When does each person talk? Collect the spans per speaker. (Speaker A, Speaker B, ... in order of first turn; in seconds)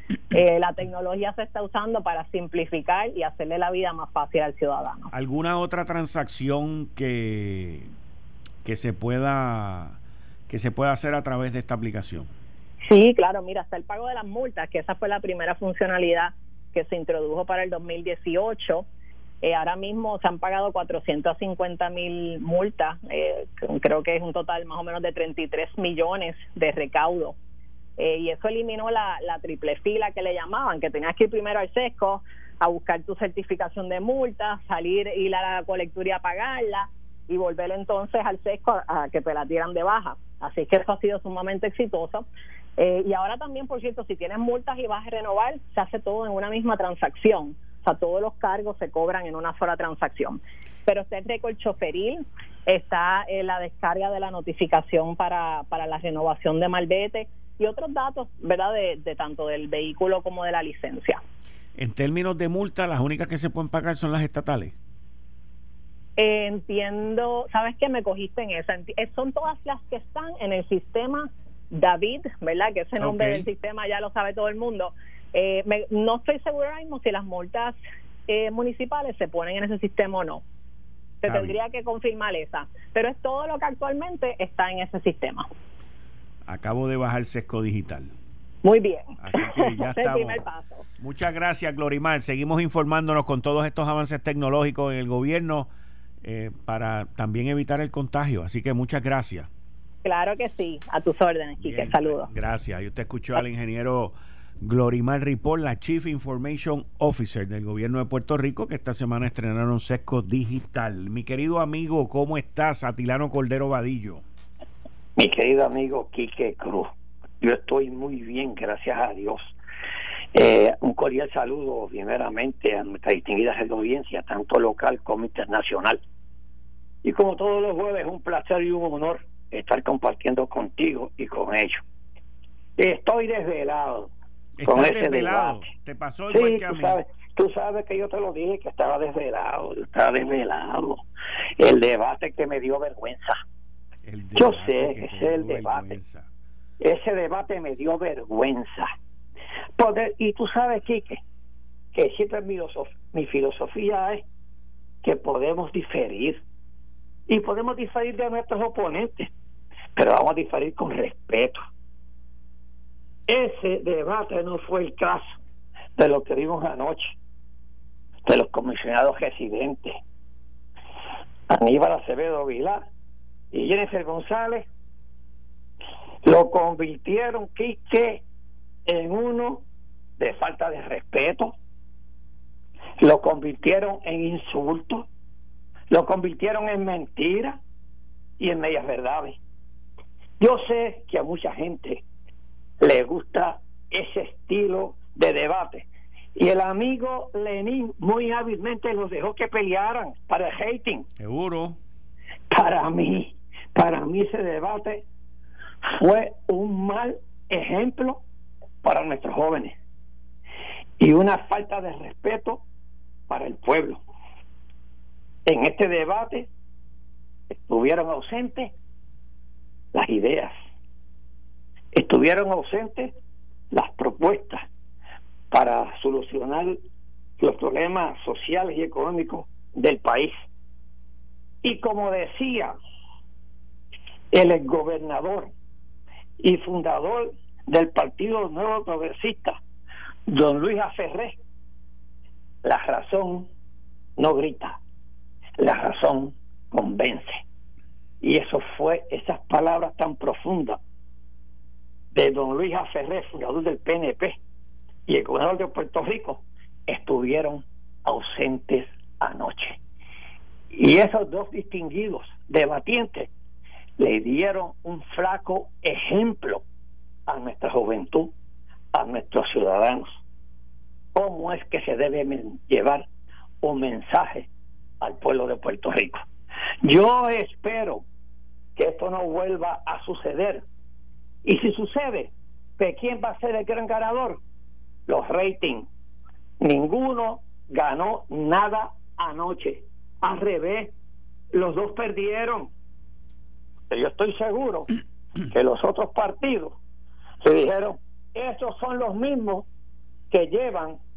Speaker A: 0.3-5.1, 12.9-18.9, 19.4-27.4, 28.0-61.2, 66.2-77.8, 78.3-80.4, 81.2-85.5, 88.6-90.8, 100.0-102.3
Speaker B: 5.1-7.9, 8.6-10.0, 10.5-12.3, 61.8-64.7, 73.0-73.5, 81.2-81.6, 86.5-88.1, 89.2-90.4, 91.0-95.7, 96.2-99.5, 101.6-114.2, 134.6-137.0, 144.0-146.3, 201.2-201.8
Speaker C: 115.2-119.5, 120.3-126.0, 127.0-131.8, 132.8-134.1, 134.7-135.7, 136.3-141.0, 141.6-143.4, 144.3-145.9, 146.8-148.9, 149.8-151.2, 151.9-154.2, 155.0-156.4, 157.3-159.3, 159.9-161.6, 163.3-165.3, 166.0-167.2, 168.2-170.0, 171.5-172.8, 173.5-174.7, 176.2-178.2, 178.8-179.6, 180.2-181.5, 183.0-185.1, 185.9-187.6, 188.4-189.4, 190.4-192.0, 192.8-201.1, 202.5-205.0, 205.8-208.2, 208.8-209.8, 211.0-212.6, 213.3-214.0, 215.4-216.5, 217.5-218.7, 219.9-220.5, 221.9-223.2, 223.7-224.6, 225.5-226.8, 227.4-230.3, 231.6-232.7, 234.3-235.5, 236.4-239.6, 240.3-241.4, 242.6-243.5, 244.2-244.8, 245.6-247.4, 248.2-250.8, 252.1-254.4, 255.1-259.8, 260.7-263.3, 264.0-266.6, 267.3-268.3, 268.9-270.2, 271.1-273.1, 273.6-274.5, 275.0-276.2, 276.8-278.0, 278.8-280.6, 281.4-284.4, 285.1-285.9, 286.6-290.9, 291.5-292.7, 293.9-294.9, 295.5-296.8, 297.4-299.7, 300.3-301.0